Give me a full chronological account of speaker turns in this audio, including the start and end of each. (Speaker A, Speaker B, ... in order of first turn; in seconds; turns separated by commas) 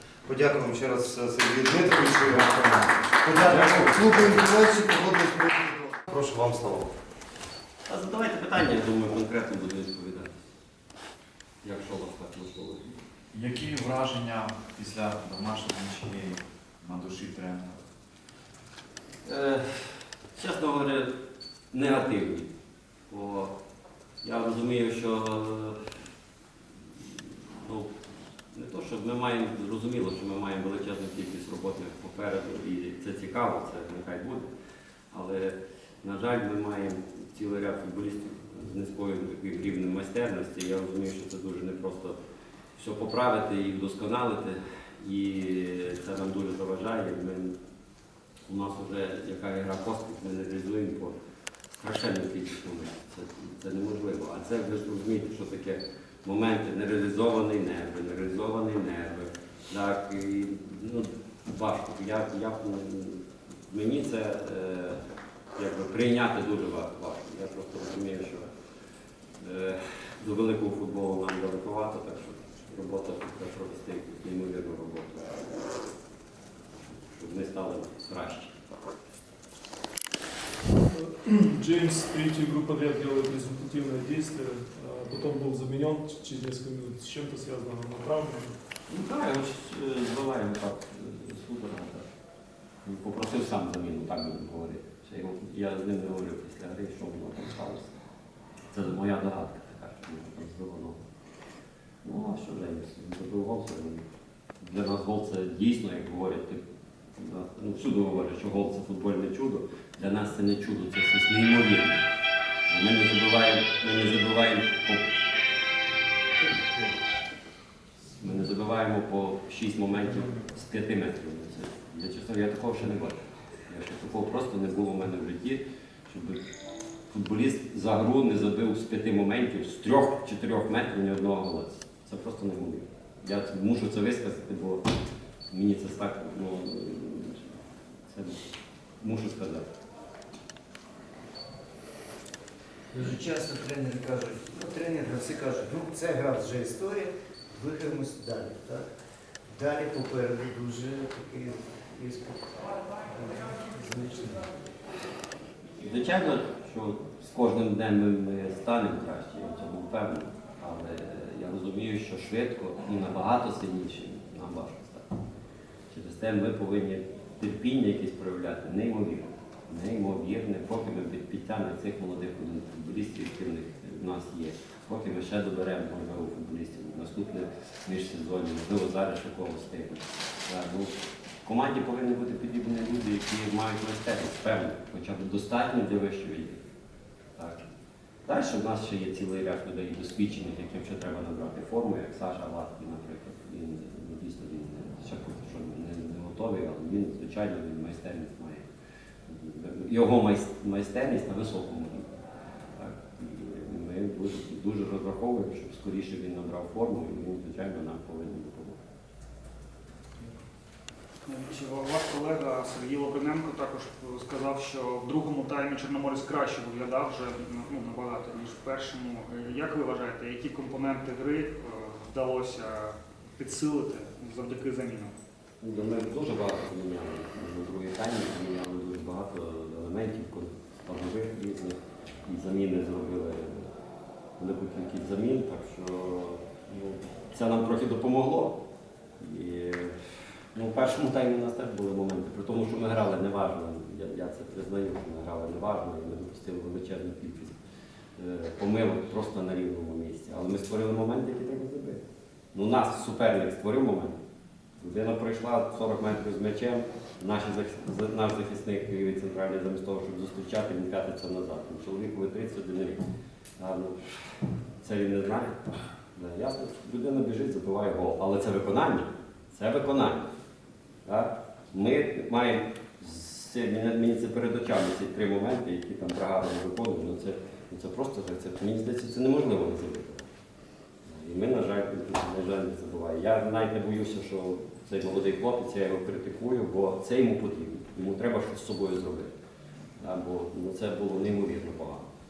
Speaker A: 0.2-6.9, Speaker B: 7.8-10.3, Speaker B: 11.6-13.0, Speaker C: 13.3-17.8, Speaker B: 19.2-21.1, Speaker B: 21.7-22.5, Speaker B: 23.1-23.5, Speaker B: 24.2-25.8, Speaker B: 27.5-27.9, Speaker B: 28.5-34.5, Speaker B: 35.1-42.1, Speaker B: 42.8-47.5, Speaker B: 48.5-51.1, Speaker B: 51.7-65.0, Speaker B: 65.5-68.5, Speaker B: 69.4-75.5, Speaker B: 76.9-78.5, Speaker D: 80.9-88.5, Speaker B: 88.9-92.0, Speaker B: 92.8-97.9, Speaker B: 98.7-101.0, Speaker B: 102.0-104.0, Speaker B: 104.6-106.6, Speaker B: 107.2-112.0, Speaker B: 112.7-115.0, Speaker E: 116.5-116.9, Speaker B: 118.2-126.4, Speaker B: 127.1-134.9, Speaker B: 135.5-137.4, Speaker B: 138.1-138.4, Speaker B: 139.0-139.7, Speaker E: 142.9-148.9, Speaker E: 149.5-152.5, Speaker E: 153.1-154.5, Speaker B: 155.8-165.0, Speaker B: 165.9-186.6, Speaker B: 187.4-187.6, Speaker B: 188.2-198.6, Speaker B: 199.3-202.1, Speaker B: 202.8-208.8, Speaker F: 211.2-225.1, Speaker B: 225.6-233.7, Speaker B: 234.4-238.6, Speaker B: 239.2-239.9, Speaker B: 240.5-247.6, Speaker B: 248.2-252.0, Speaker B: 252.5-254.2, Speaker B: 254.8-263.0, Speaker B: 263.6-264.0, Speaker B: 264.8-265.6, Speaker B: 266.1-270.3, Speaker B: 271.1-280.3, Speaker B: 281.1-289.3, Speaker B: 290.0-292.1